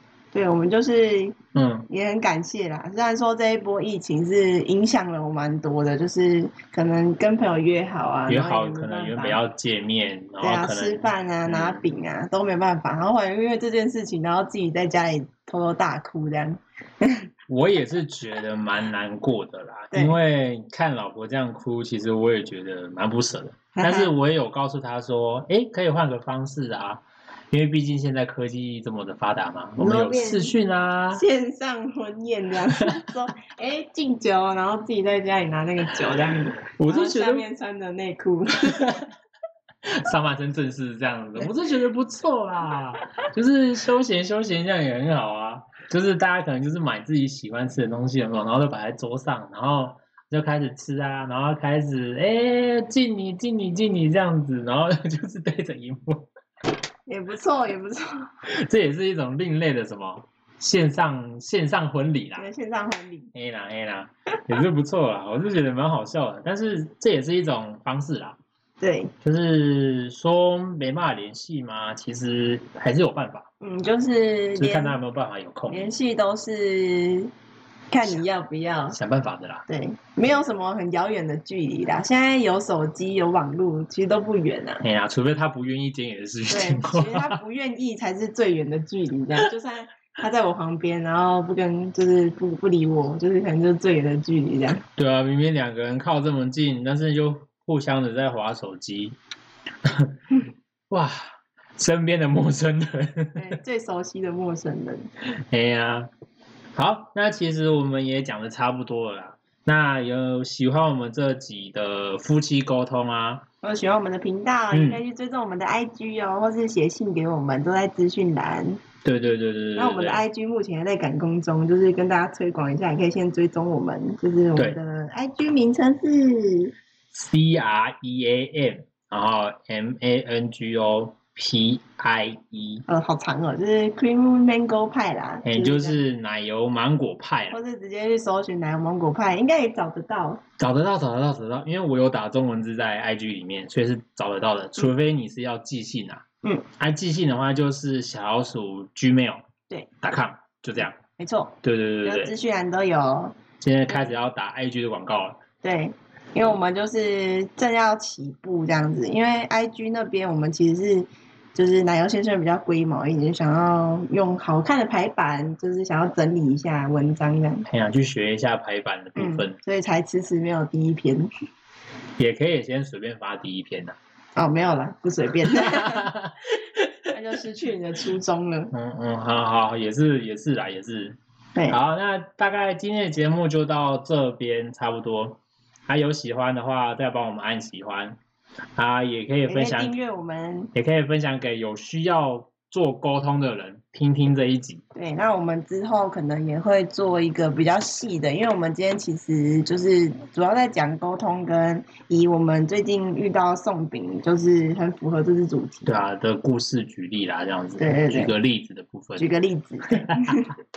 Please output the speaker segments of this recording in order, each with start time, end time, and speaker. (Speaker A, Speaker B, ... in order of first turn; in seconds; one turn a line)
Speaker A: 0.3-1.4
Speaker B: 1.5-1.9
Speaker A: 1.9-9.4
Speaker B: 8.3-11.8
Speaker A: 10.4-17.2
Speaker B: 17.5-31.2
Speaker A: 19.9-20.2
Speaker A: 23.7-24.1
Speaker A: 29.8-30.5
Speaker A: 31.1-39.0
Speaker B: 36.8-37.5
Speaker B: 39.8-56.3
Speaker A: 57.1-58.3
Speaker B: 58.5-62.5
Speaker A: 62.4-63.3
Speaker B: 63.3-68.4
Speaker A: 68.8-69.1
Speaker B: 69.2-73.5
Speaker A: 73.6-75.0
Speaker B: 74.5-75.9
Speaker A: 75.7-77.3
Speaker A: 77.9-79.0
Speaker B: 78.9-79.6
Speaker A: 79.7-84.8
Speaker B: 84.8-87.4
Speaker A: 86.5-94.8
Speaker B: 95.0-99.2
Speaker B: 99.8-100.2
Speaker B: 100.9-101.2
Speaker B: 101.8-103.5
Speaker A: 103.3-105.0
Speaker B: 105.5-106.1
Speaker B: 106.8-113.4
Speaker A: 113.6-118.8
Speaker B: 114.7-115.0
Speaker B: 119.0-120.2
Speaker A: 119.8-126.7
Speaker B: 127.1-132.8
Speaker A: 132.9-136.0
Speaker B: 135.4-137.6
Speaker A: 137.5-140.4
Speaker B: 140.6-146.2
Speaker B: 146.8-149.4
Speaker B: 150.0-150.9
Speaker A: 151.2-153.4
Speaker B: 151.6-152.3
Speaker B: 153.6-155.4
Speaker A: 155.6-167.7
Speaker B: 167.7-169.6
Speaker A: 169.2-171.3
Speaker B: 172.2-173.9
Speaker A: 174.3-176.1
Speaker B: 175.4-176.9
Speaker A: 177.1-178.7
Speaker B: 178.7-181.2
Speaker B: 181.7-188.2
Speaker B: 188.8-189.9
Speaker A: 189.5-190.7
Speaker B: 190.7-194.8
Speaker A: 194.9-206.0
Speaker B: 205.8-209.3
Speaker A: 207.8-208.3
Speaker A: 209.2-210.6
Speaker B: 209.9-210.4